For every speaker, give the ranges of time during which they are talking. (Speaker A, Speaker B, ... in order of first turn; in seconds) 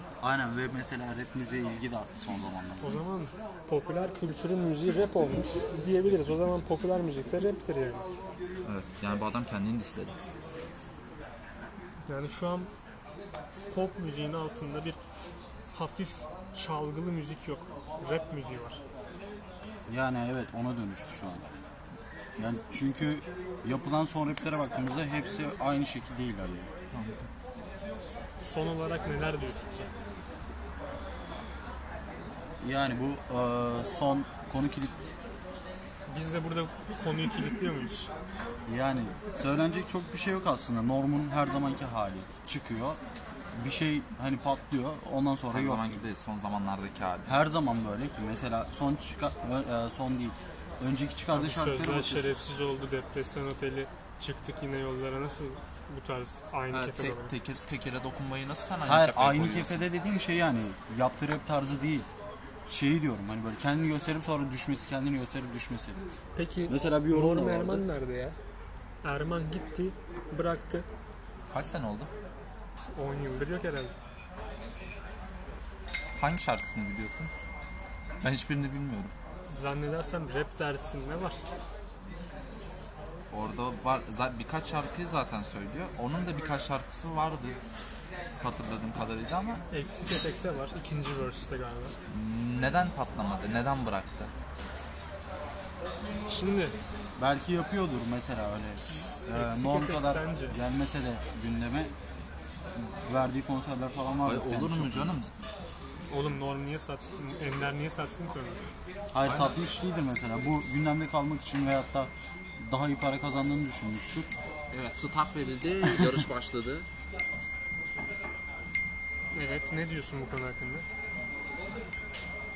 Speaker A: 0.2-3.0, 19.9-21.4, 22.4-26.7, 32.6-35.1, 38.7-43.0, 43.5-46.0, 47.3-52.4, 58.9-62.1, 62.7-66.0, 66.7-67.9, 97.2-101.9, 102.8-105.2, 109.1-114.3, 115.8-116.3
Speaker B: 2.8-8.1, 12.1-12.7, 13.7-15.0, 15.7-18.8, 28.4-29.9, 36.1-38.1, 51.3-57.3, 66.4-68.4, 69.0-70.9, 73.0-73.9, 79.5-81.4, 89.7-91.9, 96.3-96.8, 99.3-100.6, 106.1-108.6, 119.3-120.9
Speaker C: 8.7-10.2, 26.9-27.3, 45.5-47.4, 56.7-59.9, 71.5-72.1, 76.2-77.3, 78.2-79.1, 83.3-87.6, 88.4-89.6, 92.1-94.3, 104.2-105.3, 109.2-109.6, 114.7-116.9